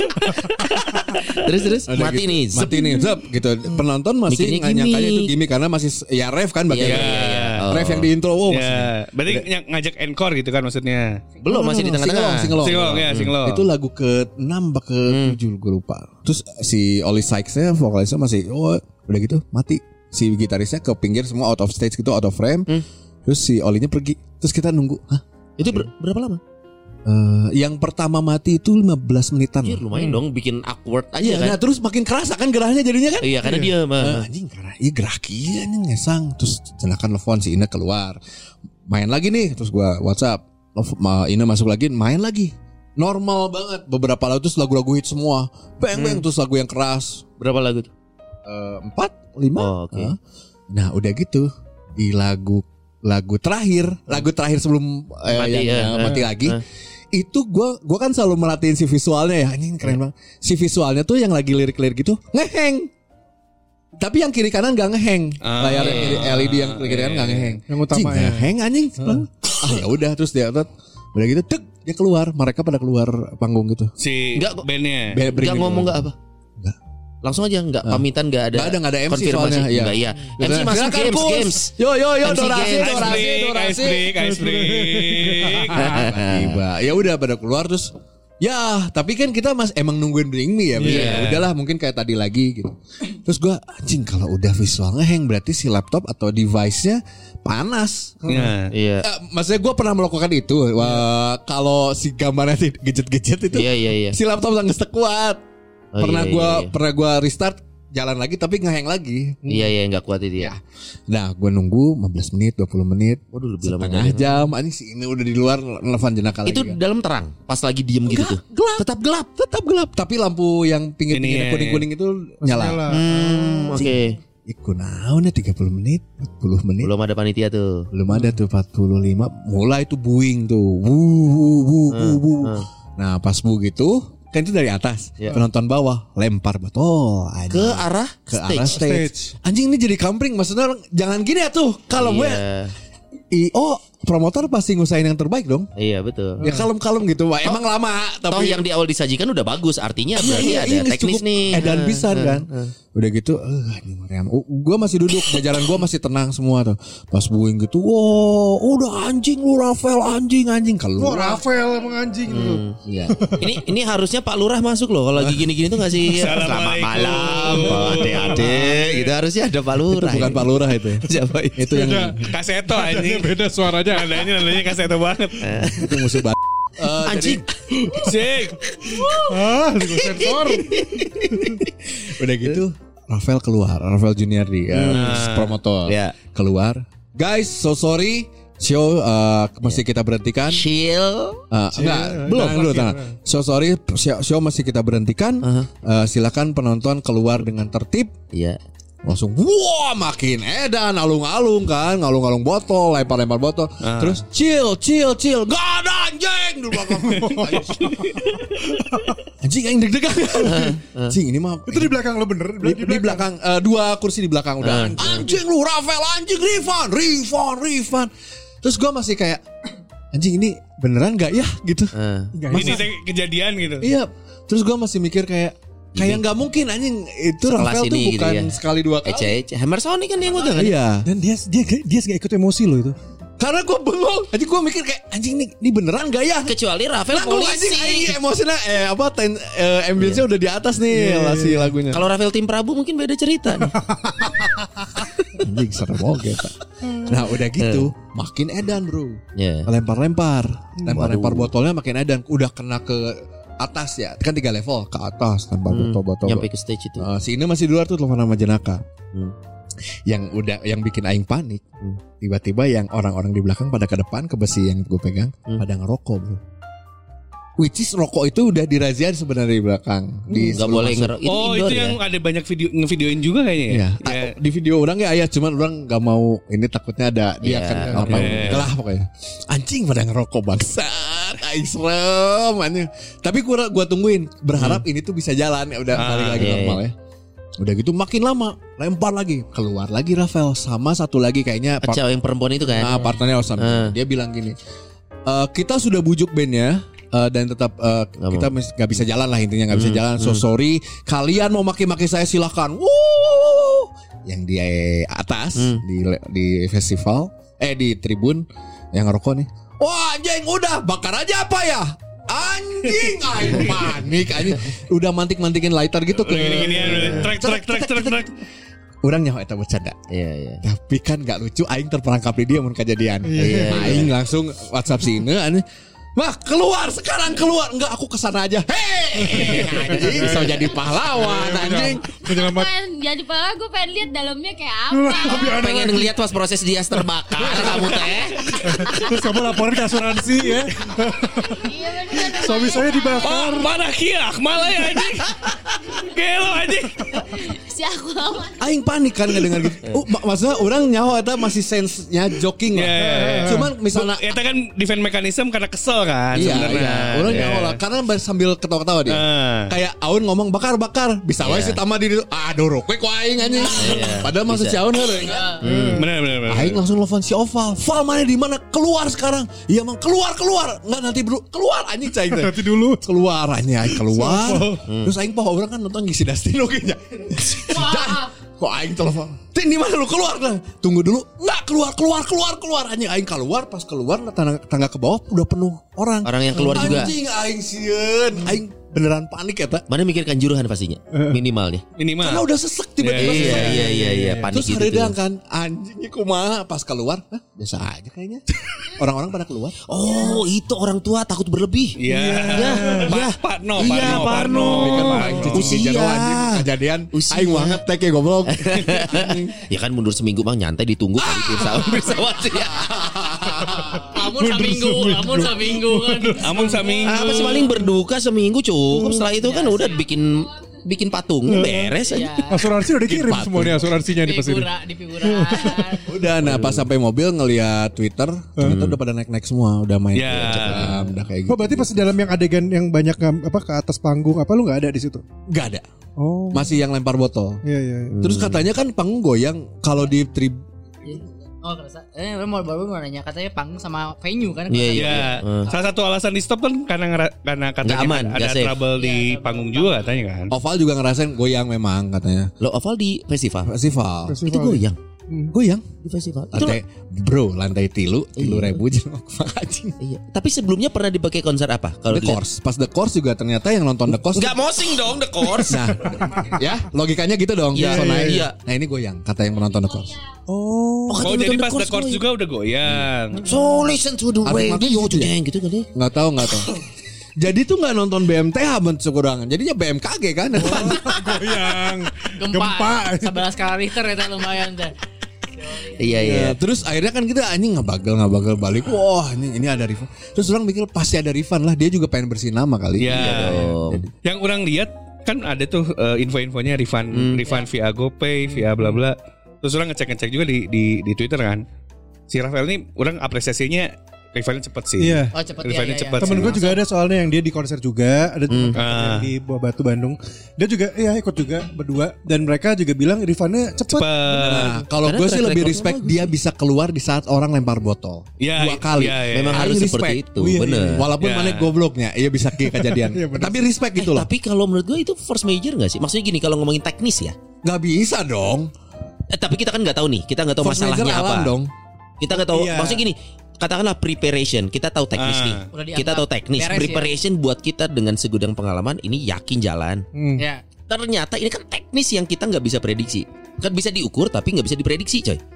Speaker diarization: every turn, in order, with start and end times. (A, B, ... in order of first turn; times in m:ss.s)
0:00.8-0:02.7 A
0:01.9-0:09.5 B
0:04.3-0:05.3 A
0:06.7-0:08.1 A
0:06.8-0:07.6 C
0:08.5-0:11.2 C
0:11.4-0:22.7 B
0:11.4-0:13.3 A
0:12.6-0:13.7 C
0:15.1-0:15.4 A
0:23.3-0:25.9 B
0:25.6-0:26.4 A
0:27.0-0:29.8 B
0:29.6-0:31.6 A
0:31.2-0:38.2 B
0:33.2-0:34.3 A
0:33.4-0:33.7 D
0:38.9-0:47.3 B
0:45.9-0:46.2 A
0:47.4-0:47.9 A
0:48.5-0:50.2 B
0:49.6-0:50.2 A
0:50.7-0:56.6 B
0:55.3-0:56.6 A
0:57.1-1:02.9 B
1:04.0-1:13.9 B
1:05.4-1:07.6 C
1:05.8-1:06.2 A
1:07.7-1:09.2 D
1:14.0-1:15.2 C
1:14.4-1:14.7 A
1:15.1-1:16.0 B
1:15.3-1:16.2 A
1:17.2-1:23.2 A
1:17.8-1:24.1 B
1:22.7-1:25.8 C
1:24.1-1:26.0 D
1:25.8-1:38.5 B
1:25.8-1:26.6 A
1:30.8-1:31.2 D
1:30.8-1:31.4 A
1:38.3-1:38.7 C
1:38.7-1:39.1 A
1:39.0-1:45.4 B
1:43.5-1:44.2 A
1:45.9-1:46.7 A
1:46.0-1:49.4 B
1:49.5-1:50.5 A
1:50.4-1:56.8 B
1:53.3-1:54.3 A
1:56.5-1:59.4 A
1:58.1-2:02.9 B
2:01.1-2:01.9 C
2:02.4-2:04.0 D
2:02.9-2:04.2 A
2:04.5-2:06.9 B
2:06.8-2:07.9 A
2:07.9-2:22.4 B
2:11.9-2:12.6 A
2:17.5-2:18.9 A
2:18.7-2:19.3 D
2:22.0-2:22.7 A
2:23.3-2:25.7 B
2:25.8-2:26.4 A
2:26.4-2:26.7 D
2:26.4-2:28.6 B
2:28.3-2:32.7 A
2:30.2-2:41.4 B
2:41.0-2:43.6 D
2:42.3-2:51.6 A
2:46.1-2:48.5 C
2:49.9-2:51.0 B
2:51.6-2:52.2 B
2:51.7-2:54.4 D
2:52.3-2:55.4 C
2:55.4-2:56.0 A
2:55.7-2:57.4 B
2:56.9-2:58.0 A
2:58.0-2:58.6 C
2:58.8-2:59.2 A
2:59.2-3:00.8 D
2:59.8-3:01.7 A
3:02.0-3:10.7 B
3:04.7-3:05.2 A
3:04.9-3:05.6 C
3:05.9-3:06.2 A
3:10.5-3:11.4 A
3:11.5-3:18.1 B
3:11.8-3:13.2 D
3:15.4-3:15.7 A
3:18.3-3:18.6 A
3:19.1-3:28.0 B
3:23.8-3:24.2 C
3:27.1-3:28.2 D
3:27.8-3:28.1 C
3:29.4-3:32.0 B
3:30.4-3:31.2 A
3:31.7-3:33.3 D
3:32.6-3:38.1 B
3:34.6-3:35.2 A
3:34.8-3:35.4 D
3:38.6-3:39.4 B
3:40.1-3:41.9 B
3:41.9-3:42.4 A
3:42.4-3:42.9 D
3:42.5-3:43.9 C
3:43.8-3:49.4 B
3:46.0-3:46.2 A
3:47.5-3:48.5 A
3:49.0-3:50.8 A
3:50.5-3:51.1 B
3:51.0-3:53.0 D
3:53.4-3:56.5 B
3:56.5-3:58.2 A
3:57.1-4:02.0 B
4:00.0-4:00.2 A
4:00.9-4:01.7 D
4:01.9-4:03.8 A
4:03.8-4:04.3 D
4:05.4-4:18.8 B
4:07.6-4:07.9 A
4:09.4-4:09.7 A
4:10.9-4:11.5 A
4:15.7-4:17.1 A
4:20.1-4:21.7 B
4:22.2-4:26.4 B
4:27.6-4:31.2 B
4:30.3-4:32.0 A
4:31.2-4:34.3 C
4:33.7-4:47.0 B
4:37.4-4:38.6 A
4:38.0-4:38.7 C
4:44.6-4:44.8 A
4:46.0-4:46.5 C
4:46.3-4:46.8 A
4:47.6-4:52.0 B
4:51.8-4:53.9 A
4:52.7-4:54.6 B
4:55.3-5:18.3 B
4:58.2-4:58.5 A
4:59.7-5:00.4 A
5:05.6-5:05.8 A
5:16.2-5:18.3 C
5:19.0-5:20.0 B
5:20.1-5:20.6 A
5:20.6-5:25.6 B
5:23.3-5:24.0 D
5:23.4-5:24.1 A
5:26.2-5:32.0 B
5:29.3-5:30.6 D
5:29.6-5:30.1 A
5:31.1-5:32.7 D
5:32.1-5:35.7 E
5:34.9-5:36.1 D
5:35.4-5:38.4 A
5:37.4-5:38.0 D
5:37.5-5:39.0 C
5:38.6-5:43.7 D
5:38.9-5:39.2 E
5:41.4-5:43.4 E
5:43.2-5:47.2 C
5:47.2-5:48.6 E
5:48.6-5:54.2 B
5:52.7-5:57.8 C
5:53.0-5:53.7 D
5:56.3-6:05.6 B
5:57.3-5:57.5 A
5:59.1-5:59.7 C
6:01.4-6:01.8 A
6:03.7-6:04.8 A
6:05.3-6:05.6 F
6:05.6-6:06.0 A
6:05.6-6:06.1 D
6:06.0-6:06.8 C
6:06.5-6:29.8 B
6:12.3-6:13.0 D
6:13.9-6:14.8 D
6:14.8-6:15.1 A
6:26.2-6:27.1 A
6:26.6-6:27.1 D
6:29.9-6:31.8 A
6:31.1-6:31.4 D
6:32.0-6:32.5 C
6:32.2-6:33.9 B
6:33.0-6:33.9 C
6:33.2-6:35.2 A
6:33.8-6:34.5 D
6:34.5-6:39.8 B
6:39.9-6:42.0 A
6:42.0-6:45.7 C
6:42.1-6:43.2 D
6:42.5-6:47.8 A
6:43.8-6:49.5 B
6:48.5-6:52.9 A
6:51.2-6:54.0 B
6:54.0-6:57.0 D
6:54.1-6:57.0 F
6:56.4-6:57.8 C
6:57.0-7:02.4 A
6:58.9-6:59.3 D
6:59.4-7:00.0 F
7:01.5-7:02.0 D
7:02.0-7:02.7 F
7:02.5-7:04.7 D
7:03.1-7:03.9 B
7:04.2-7:06.1 F
7:05.2-7:06.0 D
7:06.1-7:11.9 B
7:06.4-7:06.9 A
7:08.6-7:08.9 D
7:10.2-7:10.9 C
7:10.4-7:11.1 A
7:11.5-7:15.2 D
7:15.5-7:15.9 B
7:16.2-7:16.8 D
7:16.5-7:17.6 B
7:17.6-7:18.2 D
7:18.1-7:18.6 A
7:18.2-7:20.6 B
7:21.0-7:25.9 F
7:24.7-7:25.7 A
7:24.9-7:30.5 C
7:27.8-7:28.8 A
7:29.0-7:30.2 F
7:30.5-7:32.5 B
7:32.6-7:33.7 A
7:33.6-7:34.4 B
7:34.3-7:35.5 D
7:34.5-7:35.0 A
7:35.5-7:35.9 B
7:36.0-7:36.8 A
7:36.5-7:40.0 B
7:38.4-7:38.8 A
7:40.0-7:42.4 A
7:42.1-7:44.6 B
7:44.2-7:45.8 A
7:45.7-7:50.2 B
7:46.2-7:46.5 D
7:47.7-7:48.5 A
7:47.8-7:48.4 D
7:50.5-7:51.3 D
7:51.1-7:52.2 A
7:51.2-7:53.4 C
7:52.9-7:55.9 A
7:54.4-7:55.3 B
7:55.9-7:56.7 B
7:57.4-8:01.8 B
8:00.6-8:03.4 D
8:02.4-8:04.9 F
8:05.6-8:05.9 F
8:06.0-8:06.6 A
8:06.1-8:14.0 B
8:13.0-8:13.7 C
8:13.1-8:14.1 A
8:14.2-8:21.6 C
8:17.1-8:17.4 A
8:18.5-8:19.0 D
8:22.3-8:26.7 C
8:25.0-8:25.4 D
8:25.3-8:26.8 F
8:26.2-8:34.9 D
8:28.5-8:28.8 A
8:28.8-8:29.3 C
8:33.9-8:34.8 C
8:34.4-8:40.3 B
8:35.0-8:36.3 A
8:38.4-8:39.7 C
8:39.3-8:41.1 A
8:40.4-8:41.0 D
8:40.8-8:44.3 B
8:41.2-8:41.7 C
8:42.6-8:43.7 D
8:44.0-8:47.4 A
8:47.6-8:48.7 B
8:49.3-8:51.6 A
8:50.6-8:51.7 B
8:52.2-9:00.0 A
8:52.3-8:53.0 D
8:55.2-8:55.7 C
8:55.7-8:57.2 F
9:00.2-9:00.5 D
9:00.4-9:00.6 F
9:00.9-9:05.4 A